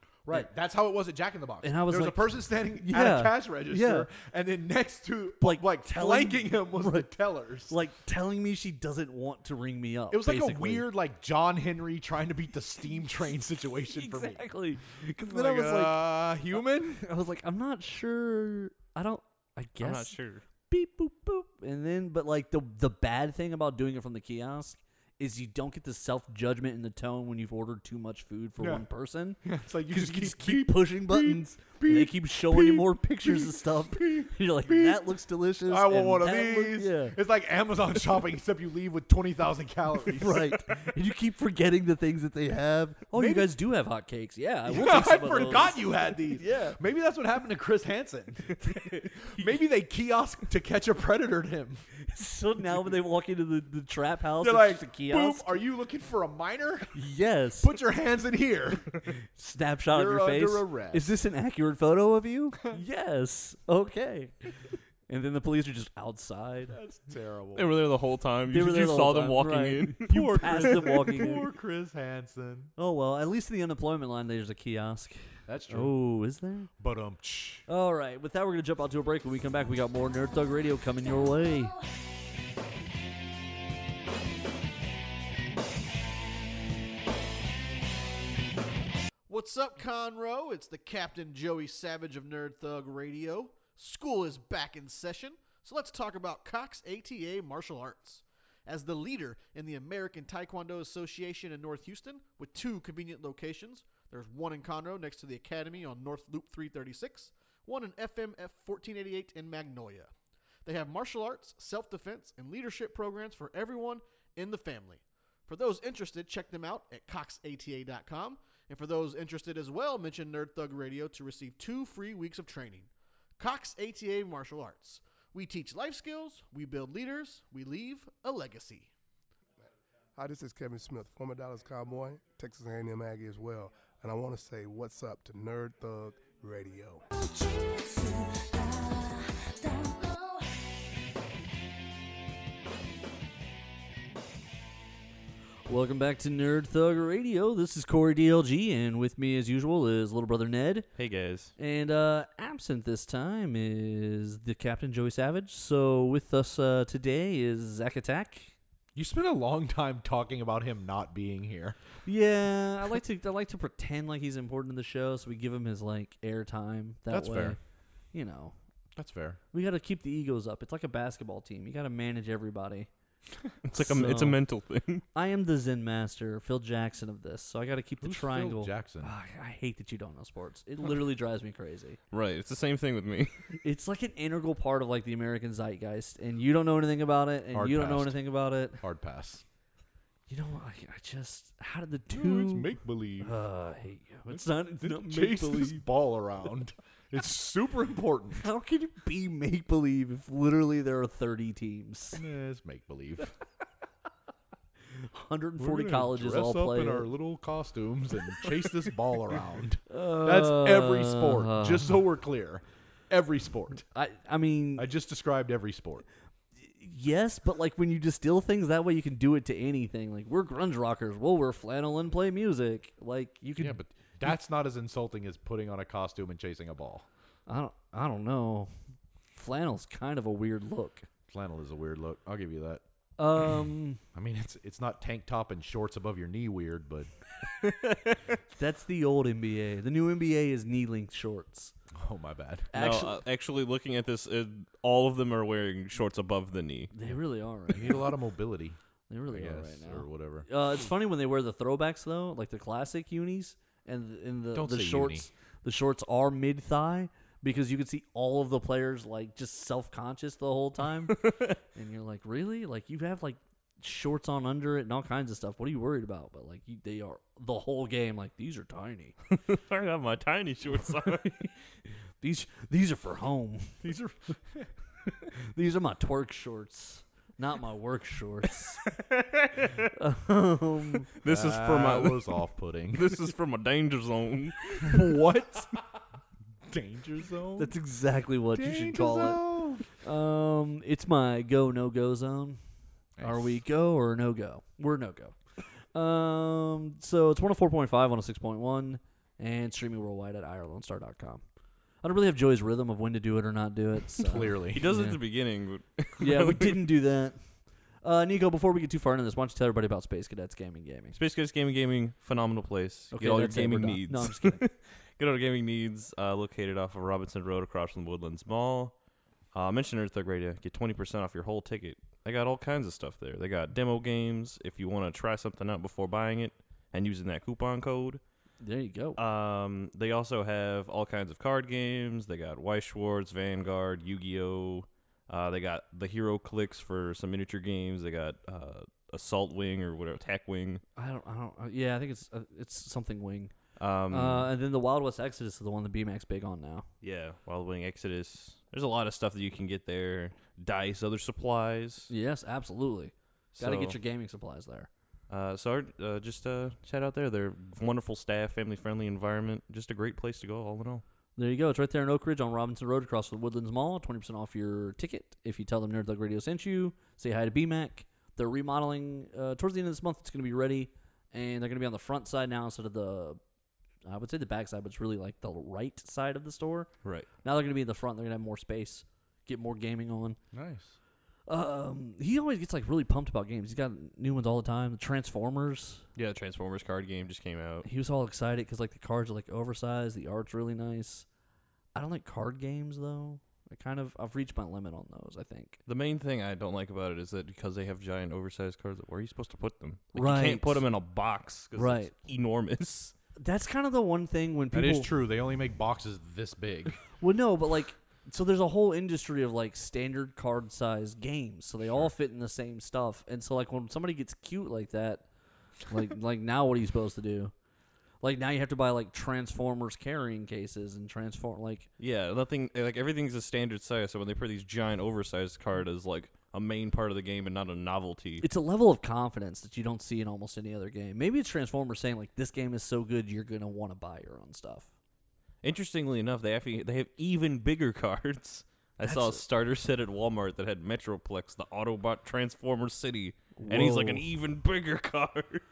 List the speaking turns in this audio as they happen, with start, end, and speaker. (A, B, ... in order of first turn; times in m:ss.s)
0:00.2-0:07.7 A
0:01.6-0:04.1 B
0:05.4-0:07.1 B
0:07.7-0:10.9 B
0:10.1-0:14.4 A
0:13.9-0:20.2 B
0:15.2-0:17.0 A
0:19.8-0:20.4 C
0:20.7-0:37.2 B
0:28.6-0:28.8 A
0:29.4-0:35.1 A
0:35.6-0:40.9 A
0:40.2-0:46.8 B
0:43.1-0:43.5 A
0:44.7-0:51.9 A
0:48.6-0:49.4 B
0:52.0-0:55.6 B
0:54.4-0:57.0 A
0:56.9-0:57.7 B
0:57.6-0:59.0 A
0:59.3-1:04.5 B
0:59.9-1:01.1 A
1:05.1-1:06.8 B
1:06.7-1:07.7 A
1:07.5-1:10.7 C
1:08.5-1:11.5 B
1:10.1-1:12.7 A
1:12.8-1:16.7 B
1:15.5-1:15.9 A
1:16.8-1:17.6 A
1:17.7-1:21.8 B
1:29.3-1:50.1 D
1:50.6-2:08.9 D
2:10.2-2:17.0 E
2:25.7-2:30.9 B
2:31.0-2:31.5 C
2:31.6-2:38.5 B
2:38.9-2:41.8 A
2:42.0-2:47.6 B
2:47.1-2:47.6 A
2:48.1-2:48.5 B
2:49.0-2:49.4 A
2:49.5-2:52.9 B
2:53.6-2:55.0 C
2:53.7-2:54.4 B
2:55.1-3:02.0 B
2:58.0-2:59.1 A
3:02.1-3:03.3 C
3:03.6-3:08.8 B
3:07.5-3:08.2 A
3:08.8-3:09.4 A
3:10.3-3:15.8 B
3:12.1-3:13.4 A
3:14.3-3:18.4 A
3:18.4-3:22.2 B
3:22.1-3:23.3 A
3:24.9-3:27.1 B
3:25.6-3:33.8 A
3:29.9-3:32.0 B
3:33.9-3:34.9 B
3:34.8-3:36.0 A
3:36.6-3:44.3 B
3:43.6-3:47.0 A
3:47.5-3:48.7 B
3:49.3-3:51.1 B
3:51.3-3:52.8 A
3:53.2-3:54.0 B
3:54.1-3:57.1 A
3:57.6-3:58.2 C
3:58.5-4:01.7 B
4:01.9-4:02.7 A
4:02.7-4:03.2 B
4:02.8-4:06.9 C
4:06.9-4:08.0 B
4:07.7-4:08.8 A
4:09.1-4:21.2 B
4:09.3-4:10.5 A
4:14.5-4:15.3 A
4:21.1-4:21.6 C
4:21.7-4:29.1 B
4:29.3-4:31.5 C
4:32.2-4:33.8 B
4:33.8-4:34.7 A
4:35.3-4:38.8 B
4:38.8-4:39.9 C
4:39.9-4:41.1 B
4:41.1-4:42.4 C
4:41.2-4:43.2 A
4:42.9-4:44.9 C
4:44.8-4:45.8 A
4:46.7-4:47.7 A
4:47.6-4:52.6 B
4:48.5-4:49.8 A
4:53.2-4:53.6 A
4:53.2-4:55.4 B
4:55.9-5:01.4 B
5:02.0-5:05.2 B
5:04.2-5:04.9 A
5:04.7-5:06.9 C
5:06.2-5:07.4 B
5:08.0-5:11.2 B
5:11.1-5:18.9 C
5:13.1-5:14.6 B
5:19.5-5:28.2 C
5:28.6-5:29.2 B
5:29.2-5:40.8 C
5:41.0-5:43.5 B
5:43.8-5:44.5 C
5:44.1-5:46.9 B
5:47.0-5:52.1 C
5:52.1-5:54.9 B
5:53.6-5:54.0 C
5:55.3-6:01.0 C
6:01.4-6:13.4 B
6:14.0-6:16.9 B
6:17.4-6:20.4 B
6:20.5-6:21.0 A
6:21.5-6:26.0 B
6:26.2-6:27.8 C
6:27.8-6:31.2 B
6:31.9-6:35.8 B
6:35.9-6:43.1 C
6:40.1-6:40.8 B
6:41.7-6:42.1 B
6:43.4-6:45.1 B
6:44.7-6:47.0 A
6:47.2-6:55.2 B
6:55.9-6:57.5 B
6:58.2-7:01.9 B
7:02.0-7:08.4 C
7:08.4-7:14.9 B
7:15.6-7:25.6 C
7:19.0-7:19.4 B
7:23.6-7:24.2 B